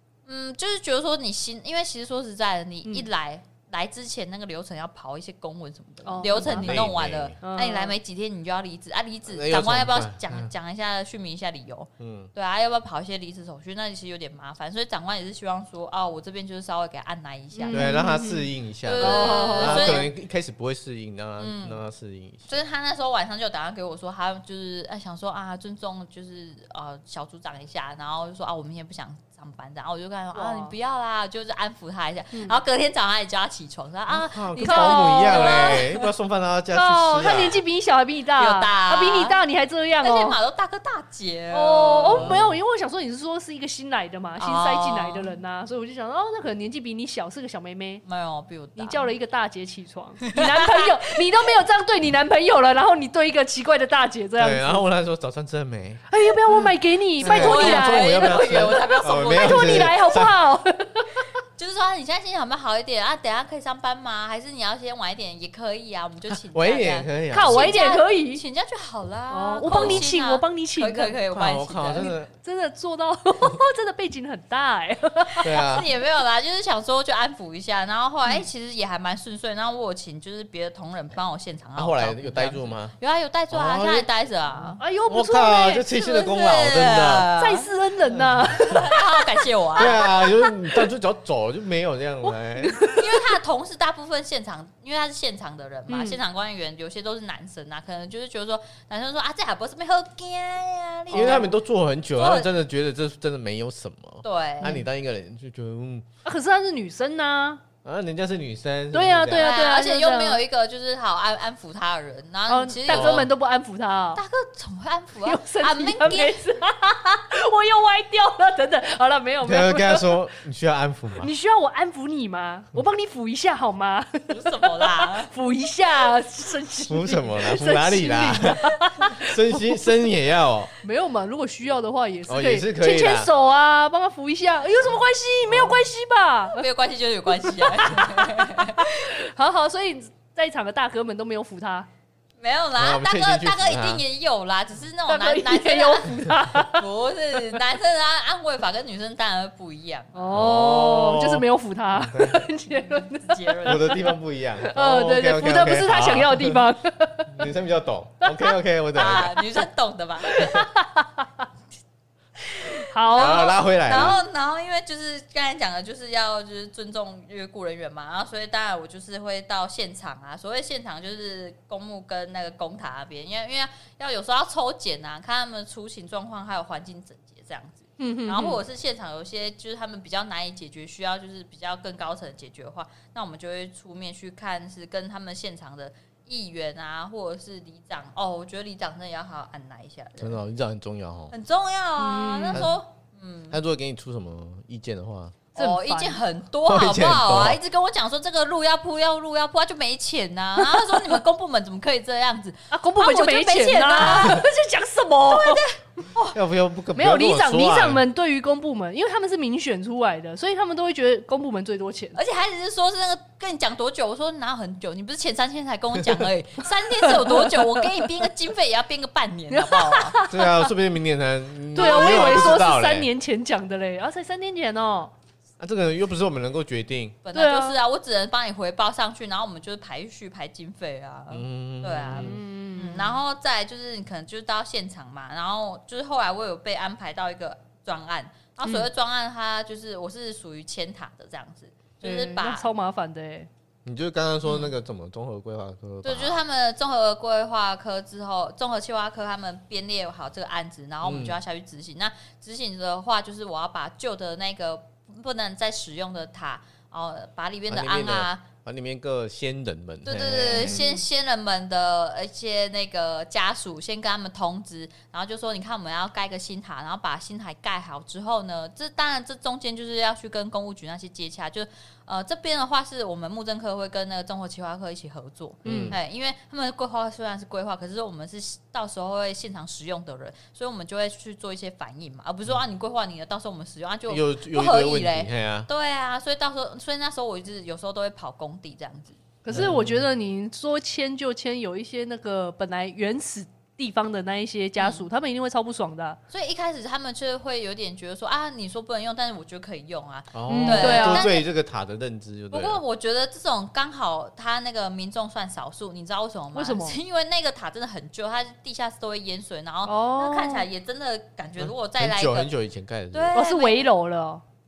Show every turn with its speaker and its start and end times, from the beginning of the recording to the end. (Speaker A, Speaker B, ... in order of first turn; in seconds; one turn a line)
Speaker A: 0.3-18.0
Speaker B: 6.0-6.8
Speaker C: 6.2-7.4
Speaker B: 7.4-8.0
Speaker C: 9.3-10.5
Speaker C: 12.0-12.3
Speaker B: 17.6-20.1
Speaker C: 17.7-22.5
Speaker A: 18.8-20.1
Speaker A: 21.4-21.8
Speaker A: 22.5-36.0
Speaker B: 30.3-30.8
Speaker B: 32.3-32.6
Speaker C: 34.1-37.6
Speaker B: 34.6-35.8
Speaker B: 36.7-40.4
Speaker A: 38.4-39.4
Speaker A: 40.0-42.4
Speaker B: 41.5-48.0
Speaker C: 42.1-42.6
Speaker A: 44.4-45.3
Speaker A: 48.0-49.1
Speaker B: 48.8-54.8
Speaker A: 50.2-51.3
Speaker C: 54.4-60.4
Speaker B: 56.1-58.4
Speaker A: 57.2-60.0
Speaker B: 59.2-61.3
Speaker A: 61.6-72.1
Speaker C: 66.3-67.8
Speaker B: 67.3-68.4
Speaker B: 69.3-71.2
Speaker C: 69.7-70.1
Speaker C: 71.3-72.3
Speaker B: 72.1-75.5
Speaker C: 75.4-75.9
Speaker A: 75.4-84.8
Speaker C: 81.8-82.9
Speaker C: 83.5-84.1
Speaker B: 84.8-85.9
Speaker C: 85.1-87.3
Speaker A: 85.9-87.7
Speaker B: 87.4-90.5
Speaker A: 88.6-90.0
Speaker C: 89.8-92.8
Speaker B: 92.3-93.2
Speaker A: 92.9-101.5
Speaker B: 95.9-96.2
Speaker B: 101.1-101.5
Speaker C: 101.1-106.1
Speaker A: 102.1-102.5
Speaker A: 104.2-104.8
Speaker B: 106.2-107.6
Speaker C: 107.8-109.5
Speaker B: 108.9-110.4
Speaker A: 109.3-113.3
Speaker B: 112.5-114.2
Speaker C: 112.9-113.3
Speaker A: 114.2-116.4
Speaker B: 115.2-120.1
Speaker C: 119.4-121.3
Speaker B: 121.2-129.8
Speaker A: 124.3-125.3
Speaker C: 126.9-130.7
Speaker B: 130.8-136.7
Speaker C: 132.3-133.3
Speaker A: 136.5-139.1
Speaker B: 137.4-141.9
Speaker A: 142.4-150.4
Speaker C: 142.8-144.0
Speaker B: 145.1-146.8
Speaker B: 150.1-157.5
Speaker C: 150.3-152.4
Speaker A: 152.9-154.0
Speaker C: 153.6-156.6
Speaker C: 157.3-159.5
Speaker B: 158.2-158.6
Speaker A: 158.9-160.7
Speaker B: 160.3-161.5
Speaker A: 162.4-190.4
Speaker B: 162.8-164.1
Speaker C: 163.2-164.2
Speaker B: 178.0-178.6
Speaker C: 190.2-191.3
Speaker A: 191.3-193.6
Speaker B: 192.0-192.7
Speaker C: 192.5-192.8
Speaker C: 193.5-195.4
Speaker B: 195.6-196.2
Speaker A: 195.6-204.5
Speaker C: 196.7-197.6
Speaker B: 200.6-201.2
Speaker B: 202.7-205.7
Speaker A: 205.2-206.4
Speaker C: 206.3-208.0
Speaker B: 207.0-212.2
Speaker A: 212.2-220.2
Speaker B: 217.0-218.0
Speaker B: 219.5-220.7
Speaker C: 220.3-223.1
Speaker B: 221.7-225.1
Speaker A: 221.8-222.5
Speaker C: 225.6-227.2
Speaker A: 227.2-242.7
Speaker B: 227.3-227.8
Speaker C: 231.3-232.4
Speaker B: 232.1-233.2
Speaker B: 238.6-238.9
Speaker B: 242.0-243.5
Speaker C: 243.8-246.4
Speaker A: 244.5-244.7
Speaker A: 246.0-258.5
Speaker C: 251.0-251.4
Speaker C: 257.7-260.8
Speaker A: 260.1-289.2
Speaker B: 260.5-261.1
Speaker C: 275.6-276.0
Speaker B: 275.7-275.9
Speaker C: 284.1-285.7
Speaker B: 289.4-296.2
Speaker C: 289.5-290.0
Speaker A: 294.8-295.1
Speaker A: 296.3-301.5
Speaker C: 300.3-302.8
Speaker B: 300.5-301.3
Speaker A: 302.5-312.5
Speaker B: 306.5-307.0
Speaker B: 309.9-310.7
Speaker C: 311.6-313.4
Speaker A: 313.1-313.8
Speaker B: 313.3-314.4